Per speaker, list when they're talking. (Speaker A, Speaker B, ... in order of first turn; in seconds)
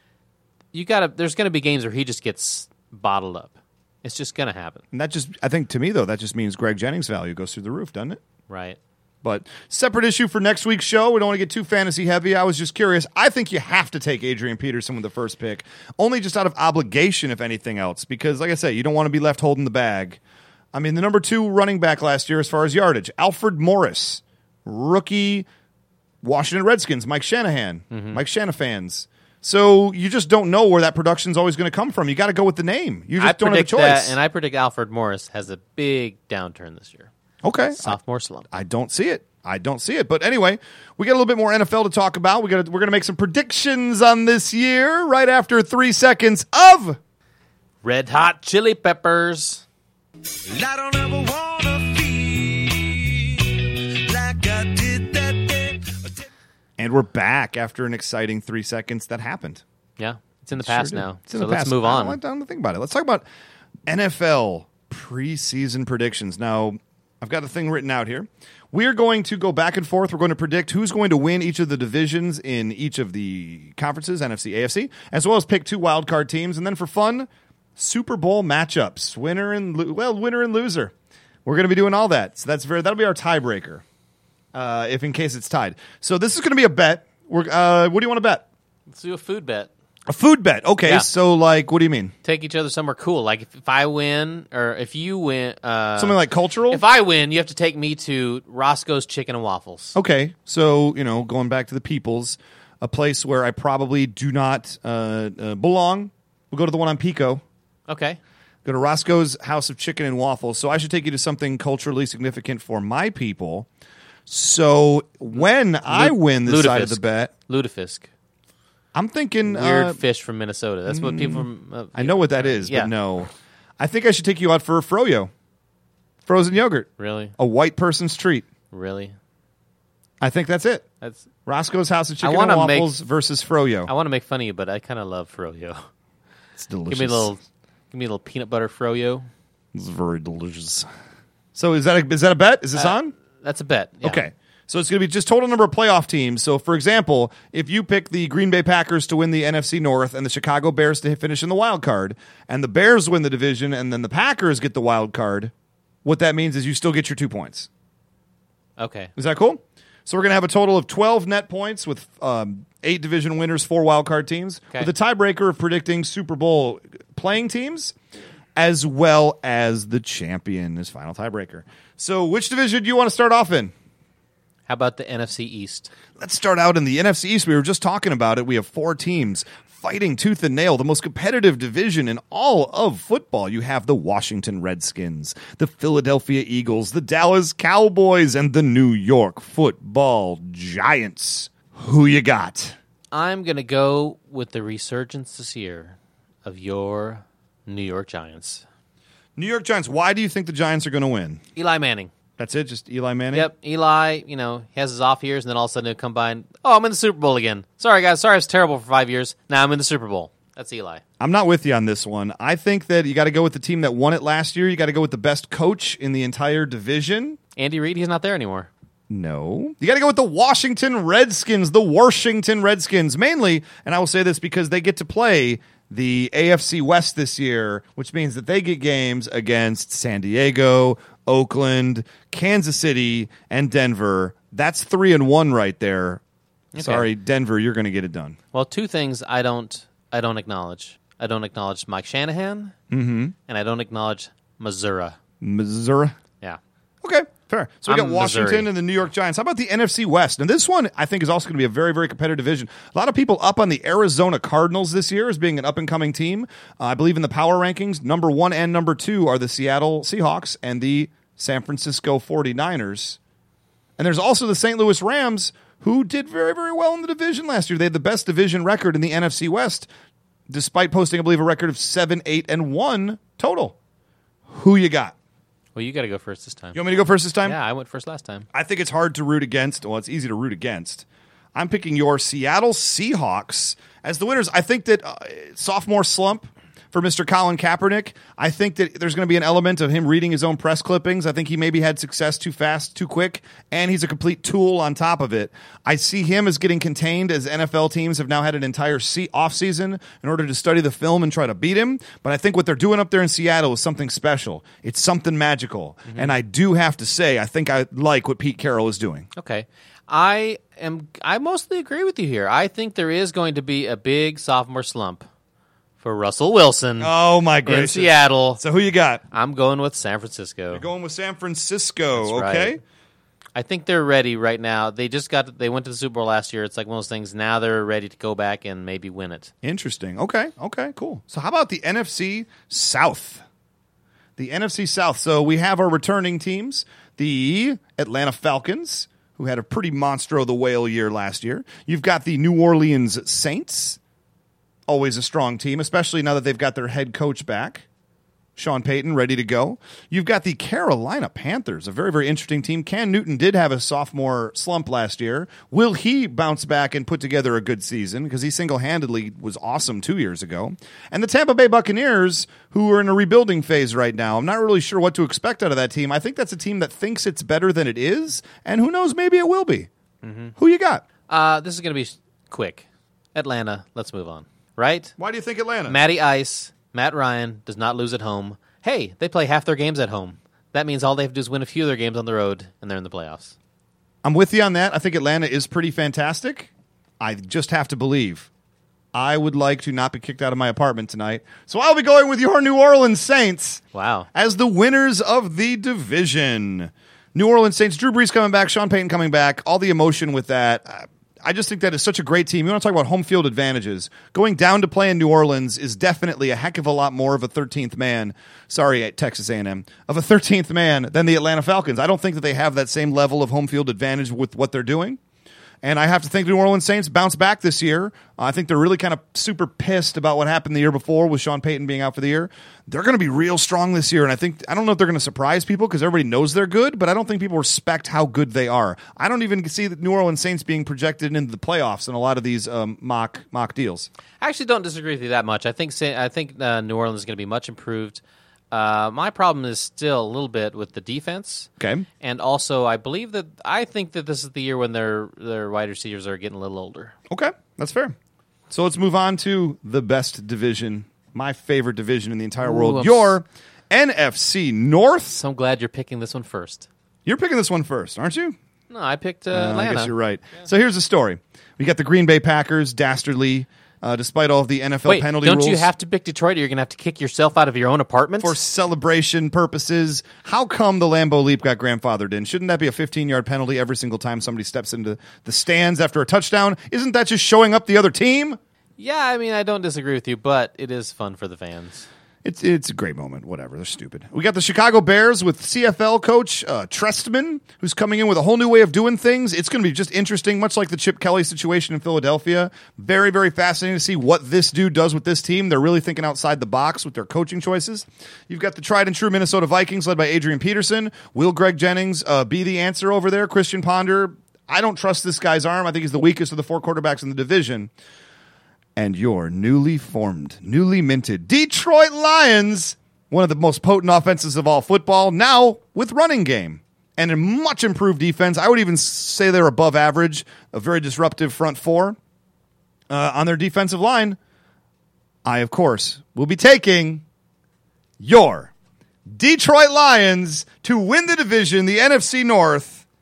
Speaker A: 0.7-3.5, 4.0-4.8, 8.5-8.8, 27.9-28.2, 33.2-37.1, 37.7-38.5, 47.8-49.6, 60.0-62.2, 88.9-89.7, 92.2-100.0, 107.9-108.2, 115.9-118.1, 119.4-122.9, 127.0-127.3, 128.7-129.1, 132.2-133.0, 133.9-135.8, 136.9-139.3, 142.8-144.2, 158.8-159.1, 174.7-175.9, 193.1-198.6, 201.6-202.1, 203.3-211.0, 217.6-218.7, 236.7-237.1, 238.5-242.7, 243.5-245.2, 247.9-248.7, 275.7-276.8, 277.4-278.4, 306.1-306.3, 309.3-315.2, 316.0-317.1, 317.6-318.6, 319.3-320.8, 322.1-322.8, 323.6-329.5, 370.2-370.5, 371.3-375.1, 375.9-383.5, 393.9-394.3, 434.4-441.7, 442.2-447.1, 452.6-453.4, 455.3-456.9, 458.9-460.1, 465.0-468.6, 479.0-482.1
Speaker B: 4.9-8.2, 9.2-20.2, 20.7-25.5, 26.2-34.1, 37.4-38.0, 38.5-47.0, 56.8-59.6, 60.6-63.2, 63.9-80.9, 81.4-83.8, 84.5-88.4, 90.1-92.1, 96.0-96.8, 99.9-107.4, 108.6-113.7, 114.3-117.3, 118.9-120.0, 120.9-125.3, 126.2-128.4, 130.2-130.8, 131.4-133.9, 136.6-137.3, 139.7-140.9, 141.5-143.1, 144.0-155.5, 156.0-157.7, 159.2-167.9, 168.6-173.7, 176.2-192.8, 199.3-201.4, 202.4-203.5, 211.2-217.4, 219.1-236.2, 236.8-238.4, 242.9-243.3, 245.4-246.2, 247.0-263.2, 264.0-269.9, 270.5-273.7, 274.5-275.1, 276.7-277.6, 278.5-309.3, 317.0-319.2, 320.7-322.8, 329.6-333.4, 334.4-344.0, 344.9-347.8, 348.6-369.9, 370.6-371.0, 375.2-376.0, 384.2-388.5, 389.1-393.8, 394.3-415.2, 415.8-434.1, 441.8-442.1, 447.3-448.1, 448.7-455.4, 457.2-458.6, 459.5-465.9, 468.4-478.6, 482.4-507.9, 508.9-522.2, 523.1-524.4, 525.4-527.2, 528.2-528.7, 529.3-533.0
Speaker C: 50.5-56.2